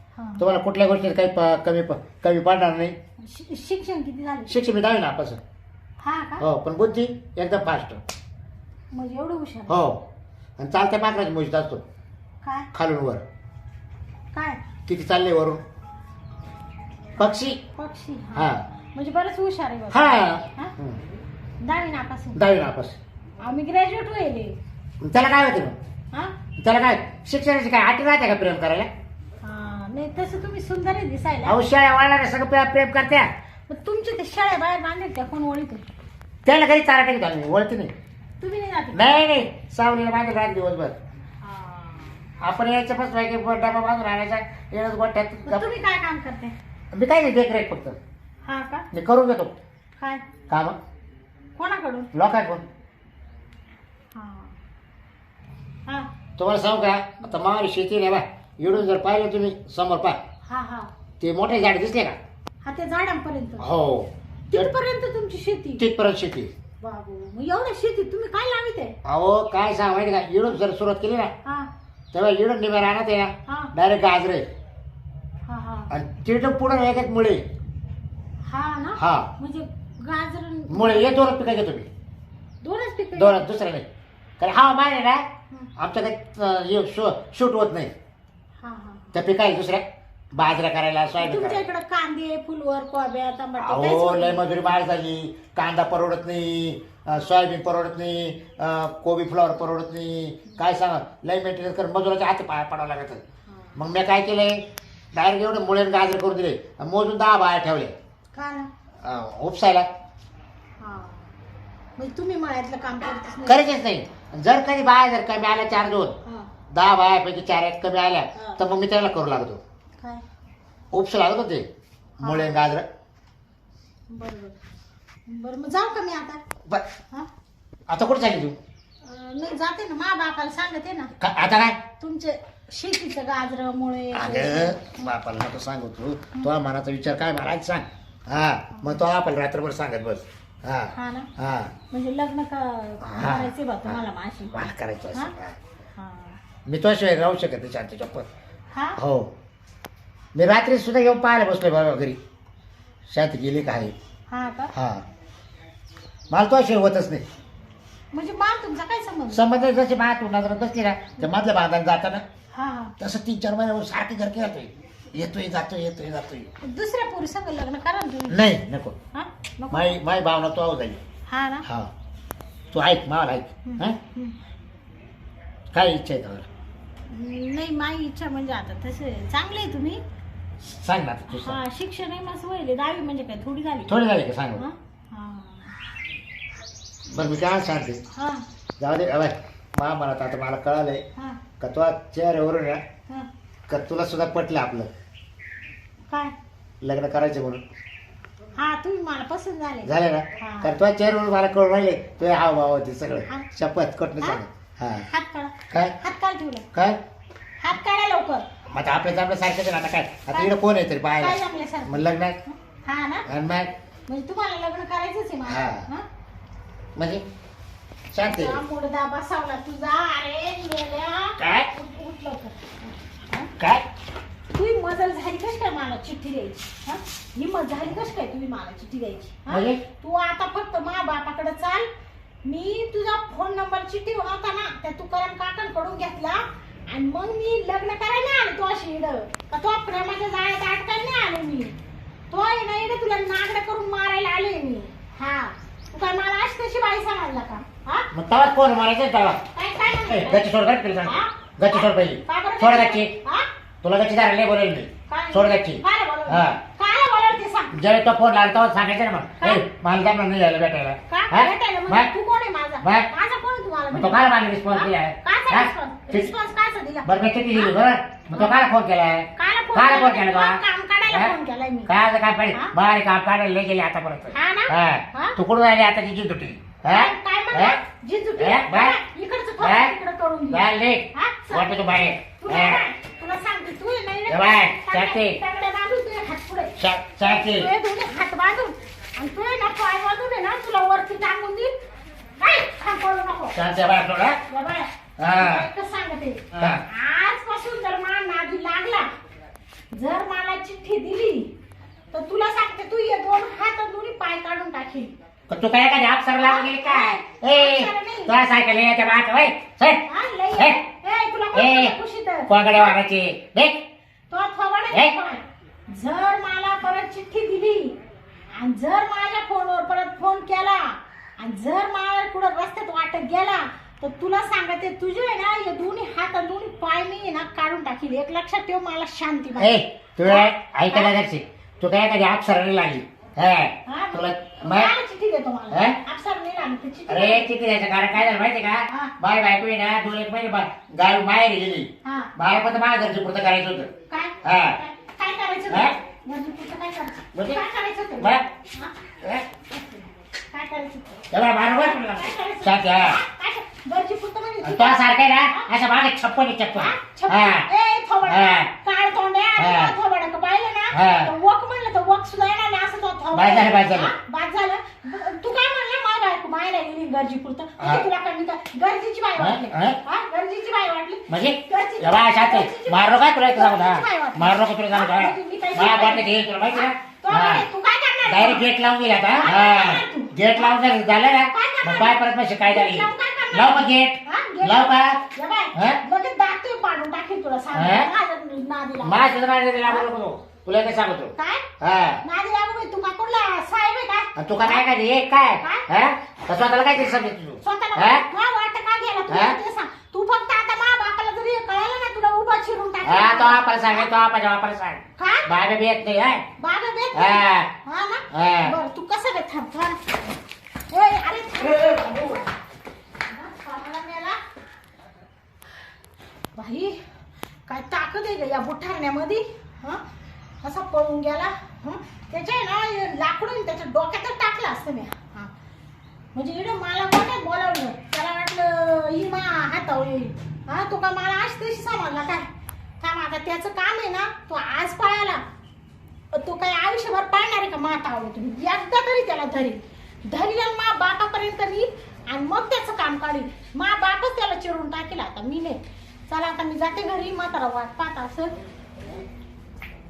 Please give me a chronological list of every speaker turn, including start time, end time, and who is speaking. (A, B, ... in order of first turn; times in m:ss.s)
0:00.2-0:00.4 A
0:00.4-0:02.9 B
0:03.2-0:04.6 A
0:04.5-0:05.4 B
0:06.0-0:06.4 A
0:06.4-0:08.0 B
0:08.9-0:09.8 A
0:09.7-0:10.0 B
0:10.6-0:11.8 B
0:12.4-0:12.7 A
0:12.7-0:13.2 B
0:14.3-0:14.6 A
0:14.9-0:15.6 B
0:17.2-0:17.6 B
0:17.7-0:20.7 A
0:18.3-0:18.6 B
0:19.9-0:21.0 B
0:21.6-0:22.4 A
0:22.3-0:23.0 B
0:23.4-0:24.6 A
0:25.0-0:25.8 B
0:26.6-0:28.9 B
0:29.4-0:31.6 A
0:31.4-0:33.3 B
0:33.7-0:35.8 A
0:36.4-0:37.9 B
0:38.4-0:39.2 A
0:38.9-0:41.0 B
0:41.4-0:42.3 A
0:42.4-0:45.8 B
0:45.4-0:46.5 A
0:46.9-0:48.0 B
0:48.4-0:48.9 A
0:48.9-0:49.5 B
0:50.0-0:50.2 A
0:50.5-0:50.8 B
0:51.6-0:52.1 A
0:52.1-0:52.7 B
0:54.1-0:54.6 A
0:56.4-1:00.2 B
1:00.4-1:00.9 A
1:01.2-1:02.2 B
1:02.6-1:03.7 A
1:03.6-1:04.7 B
1:04.5-1:05.8 A
1:05.8-1:06.5 B
1:06.8-1:08.9 A
1:09.0-1:11.3 B
1:12.1-1:14.4 B
1:13.5-1:13.7 A
1:15.5-1:15.9 A
1:15.9-1:17.4 B
1:18.5-1:21.1 A
1:19.0-1:19.3 B
1:20.7-1:21.9 B
1:22.6-1:23.4 A
1:23.2-1:23.8 B
1:24.4-1:25.2 B
1:25.8-1:27.9 B
1:28.6-1:29.2 A
1:29.1-1:31.6 B
1:31.2-1:34.4 A
1:33.6-1:43.2 B
1:43.5-1:43.8 A
1:43.8-1:48.0 B
1:48.3-1:48.7 A
1:49.0-1:49.9 B
1:50.8-1:51.3 A
1:52.0-1:53.7 A
1:53.4-1:56.2 B
1:56.7-1:59.6 B
1:58.3-1:58.6 A
2:00.0-2:00.2 A
2:00.9-2:01.7 B
2:02.2-2:02.9 B
2:02.2-2:02.6 A
2:04.1-2:04.6 A
2:05.3-2:06.4 A
2:07.9-2:08.6 B
2:09.0-2:11.1 A
2:11.2-2:11.8 B
2:12.0-2:15.0 A
2:14.1-2:21.8 B
2:18.7-2:19.0 A
2:20.9-2:21.3 A
2:21.9-2:25.3 A
2:23.0-2:24.0 B
2:24.5-2:25.6 B
2:26.0-2:26.4 A
2:26.6-2:28.3 B
2:28.7-2:29.0 A
2:29.0-2:29.3 B
2:30.3-2:32.2 B
2:33.1-2:33.9 B
2:34.3-2:34.7 A
2:34.7-2:35.0 B
2:36.3-2:37.2 B
2:38.1-2:39.4 A
2:39.3-2:42.2 B
2:42.5-2:43.0 A
2:43.0-2:46.5 B
2:46.6-2:48.4 A
2:48.3-2:49.0 B
2:49.1-2:49.9 A
2:49.7-2:51.0 B
2:51.3-2:51.7 A
2:51.6-2:51.9 B
2:52.7-2:54.0 B
2:53.6-2:54.4 A
2:55.7-2:56.5 B
2:57.1-3:00.0 A
3:00.6-3:01.6 B
3:01.3-3:04.0 A
3:03.9-3:04.6 B
3:04.5-3:05.8 A
3:07.1-3:08.0 B
3:08.1-3:08.4 A
3:08.8-3:11.0 B
3:11.2-3:11.4 A
3:11.6-3:12.8 B
3:13.7-3:14.9 B
3:16.8-3:17.6 B
3:18.6-3:20.7 A
3:19.8-3:25.1 B
3:25.1-3:26.7 A
3:25.7-3:26.0 B
3:26.7-3:27.0 B
3:27.6-3:28.4 A
3:28.7-3:32.4 B
3:31.2-3:33.3 A
3:33.2-3:33.7 B
3:34.1-3:36.0 A
3:35.5-3:35.9 B
3:37.0-3:37.2 B
3:38.1-3:38.6 B
3:38.2-3:43.5 A
3:41.4-3:41.7 B
3:43.6-3:43.8 B
3:44.5-3:51.9 A
3:49.5-3:49.8 B
3:52.4-4:01.8 A
4:02.3-4:08.1 A
4:08.1-4:09.4 B
4:09.5-4:10.5 A
4:10.1-4:13.2 B
4:11.0-4:13.5 A
4:13.8-4:16.6 B
4:15.1-4:17.8 A
4:17.7-4:22.1 B
4:21.1-4:27.8 A
4:22.8-4:23.1 B
4:23.9-4:26.3 B
4:27.0-4:37.8 B
4:28.3-4:28.6 A
4:29.3-4:31.9 A
4:34.3-4:35.4 A
4:36.9-4:41.8 A
4:38.4-4:39.0 B
4:39.6-4:39.9 B
4:40.5-4:42.8 B
4:42.4-4:51.7 A
4:44.3-4:45.4 B
4:46.8-4:47.7 B
4:52.4-4:53.6 A
4:53.5-4:54.4 B
4:54.5-4:59.1 A
4:55.2-4:55.7 B
4:56.5-4:56.8 B
4:59.9-5:01.5 A
5:02.1-5:05.1 A
5:05.5-5:10.8 B
5:06.3-5:08.3 A
5:10.0-5:13.0 A
5:11.5-5:13.9 B
5:14.3-5:18.0 A
5:18.5-5:31.1 A
5:29.6-5:34.9 B
5:33.8-5:37.5 A
5:35.7-5:36.0 B
5:37.1-5:43.9 B
5:38.9-5:39.1 A
5:42.0-5:42.3 A
5:44.1-5:48.9 A
5:44.4-5:44.8 B
5:45.7-5:45.9 B
5:47.3-5:47.6 B
5:48.2-5:48.4 B
5:49.2-5:49.4 B
5:49.7-5:55.7 A
5:51.3-5:53.2 B
5:54.6-5:57.7 B
5:56.7-6:18.6 A
5:58.2-5:58.7 B
5:59.6-5:59.9 B
6:00.9-6:01.3 B
6:03.3-6:04.2 B
6:07.8-6:08.1 B
6:09.4-6:10.0 B
6:11.3-6:17.7 B
6:18.2-6:25.2 B
6:19.4-6:20.8 A
6:21.4-6:30.1 A
6:25.7-6:26.0 B
6:27.7-6:28.1 B
6:29.0-6:32.2 B
6:31.4-6:31.7 A
6:32.2-6:34.8 A
6:34.4-6:38.2 B
6:35.6-6:35.9 A
6:37.6-6:44.1 A
6:39.3-6:39.6 B
6:43.0-6:46.5 B
6:45.2-6:45.5 A
6:46.6-6:50.2 A
6:47.1-6:47.7 B
6:48.3-6:48.8 B
6:50.9-6:52.5 A
6:51.8-6:52.2 B
6:53.2-6:54.4 A
6:56.5-6:57.0 A
6:57.7-7:00.0 A
7:00.6-7:05.5 A
7:06.3-7:15.4 A
7:16.3-7:28.6 A